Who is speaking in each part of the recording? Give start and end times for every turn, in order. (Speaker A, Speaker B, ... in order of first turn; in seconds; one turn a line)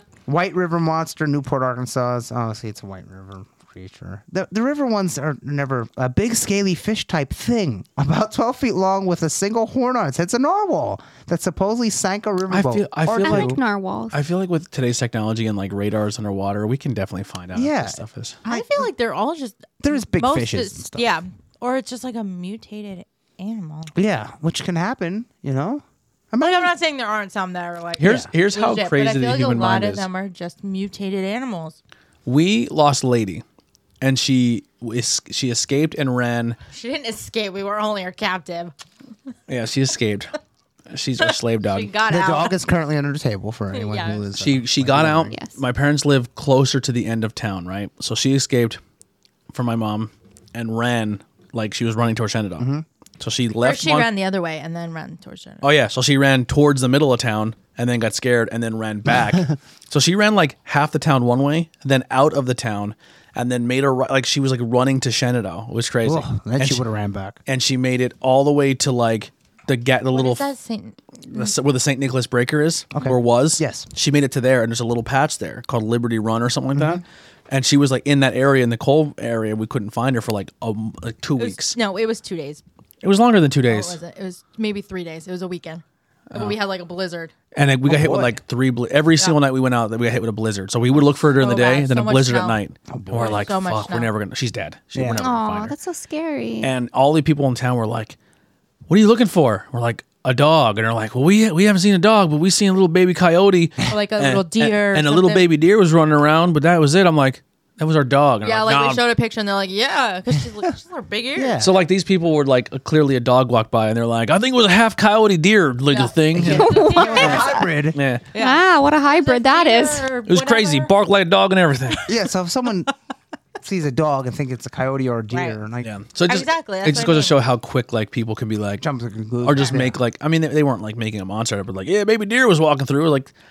Speaker A: 0.2-13.6
Speaker B: 12.5-18.4
Speaker C: 13.2-14.2
Speaker A: 17.5-18.9
Speaker D: 18.5-23.9
Speaker A: 19.8-21.1
Speaker A: 23.9-26.7
Speaker D: 26.4-31.8
Speaker B: 28.0-30.1
Speaker A: 28.0-28.3
Speaker B: 32.3-33.4
Speaker B: 34.0-36.6
Speaker D: 36.7-38.7
Speaker B: 39.5-40.3
Speaker B: 40.9-41.9
Speaker D: 41.2-42.6
Speaker A: 42.1-45.4
Speaker D: 43.7-44.2
Speaker B: 44.4-48.8
Speaker C: 45.3-45.6
Speaker B: 49.5-54.1
Speaker A: 52.6-52.9
Speaker D: 53.6-55.7
Speaker B: 55.6-66.8
Speaker A: 66.0-67.4
Speaker B: 67.5-70.5
Speaker D: 70.1-71.0
Speaker B: 71.3-81.8
Speaker A: 73.0-73.9
Speaker A: 76.8-77.0
Speaker D: 81.4-82.6
Speaker B: 83.0-84.0
Speaker D: 83.7-87.3
Speaker B: 86.3-86.6
Speaker B: 87.5-95.8
Speaker A: 87.9-88.4
Speaker D: 91.2-92.6
Speaker A: 92.9-93.4
Speaker D: 93.1-94.1
Speaker A: 95.0-95.3
Speaker C: 95.2-96.7
Speaker B: 96.6-98.2
Speaker B: 98.9-109.0
Speaker D: 103.9-105.5
Speaker D: 108.4-111.7
Speaker A: 111.4-111.7
Speaker B: 111.6-118.3
Speaker D: 115.9-117.7
Speaker A: 116.3-118.0
Speaker C: 116.5-117.6
Speaker C: 118.3-120.1
Speaker D: 118.3-120.9
Speaker B: 120.3-122.1
Speaker A: 122.1-122.9
Speaker A: 123.6-125.9
Speaker D: 125.3-125.6
Speaker B: 125.8-128.8
Speaker D: 126.3-127.4
Speaker A: 128.8-130.0
Speaker B: 129.4-133.3